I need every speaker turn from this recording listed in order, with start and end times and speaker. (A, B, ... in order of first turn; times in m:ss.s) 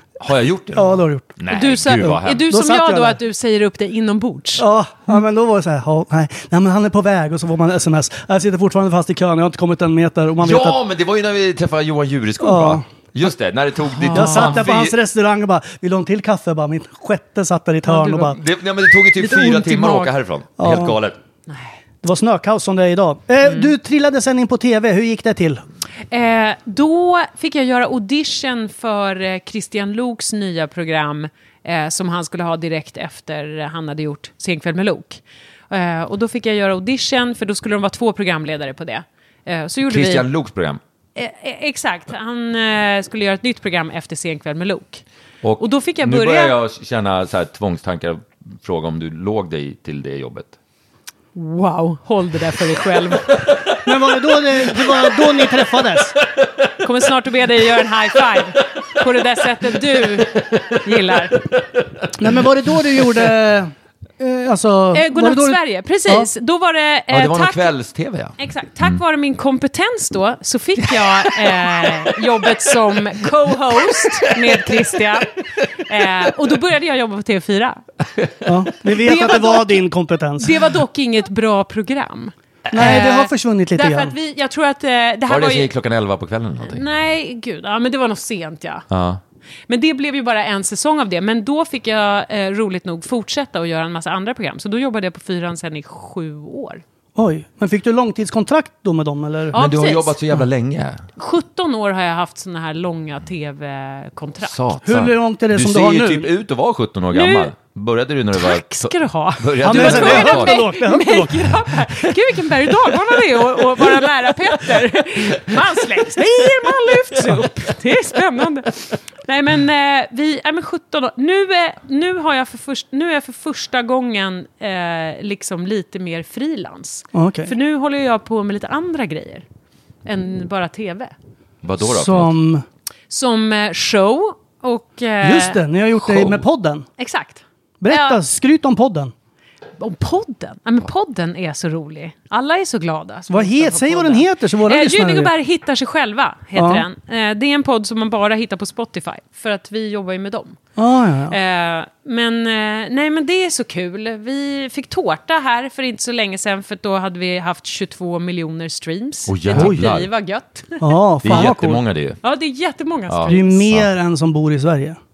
0:00.2-0:02.5 A
0:00.7-0:01.3 B
0:01.5-0:04.6 C
0:02.0-0:03.2 B
0:04.6-0:10.8 B
0:10.4-0:15.0 A
0:12.4-0:12.8 B
0:14.0-0:14.6 C
0:14.1-0:18.4 B
0:17.9-0:18.3 C
0:18.0-0:21.2 A
0:19.0-0:20.1 C
0:20.6-0:20.9 B
0:21.5-0:21.8 C
0:22.0-0:25.6 B
0:23.4-0:23.7 C
0:26.1-0:40.3 C
0:39.8-0:40.8 A
0:41.2-0:45.0 C
0:45.4-0:50.6 A
0:45.6-0:46.6 C
0:51.3-0:53.4 C
0:53.1-0:56.9 A
0:53.8-0:56.1 B
0:56.8-1:01.4 C
0:57.6-1:03.3 A
1:02.2-1:06.3 B
1:04.9-1:07.7 C
1:07.1-1:09.0 A
1:08.4-1:17.8 C
1:10.8-1:15.2 A
1:15.9-1:16.3 A
1:18.2-1:18.5 A
1:18.4-1:20.5 B
1:18.9-1:19.8 C
1:20.4-1:25.7 C
1:22.7-1:23.0 A
1:22.7-1:24.1 B
1:25.3-1:26.8 A
1:26.6-1:28.8 C
1:28.9-1:29.2 A
1:29.7-1:36.8 C
1:37.2-1:39.5 B
1:39.5-1:40.2 C
1:39.5-1:41.0 A
1:41.2-1:44.6 C
1:44.4-1:50.7 A
1:44.8-1:46.3 B
1:47.1-1:47.5 C
1:48.3-2:09.4 C
1:49.6-1:51.6 B
2:07.1-2:07.5 B
2:10.0-2:11.1 C
2:11.6-2:12.4 A
2:11.8-2:12.6 B
2:13.1-2:15.6 C
2:15.2-2:16.8 B
2:16.0-2:16.4 A
2:17.0-2:18.2 C
2:17.8-2:19.1 B
2:19.8-2:30.6 C
2:23.3-2:25.3 B
2:26.5-2:26.8 B
2:30.8-2:31.4 B
2:31.3-2:41.5 C
2:39.3-2:40.1 A
2:40.8-2:41.8 B
2:41.2-2:42.2 A
2:42.2-2:43.7 C
2:43.1-2:43.8 A
2:43.3-2:45.0 B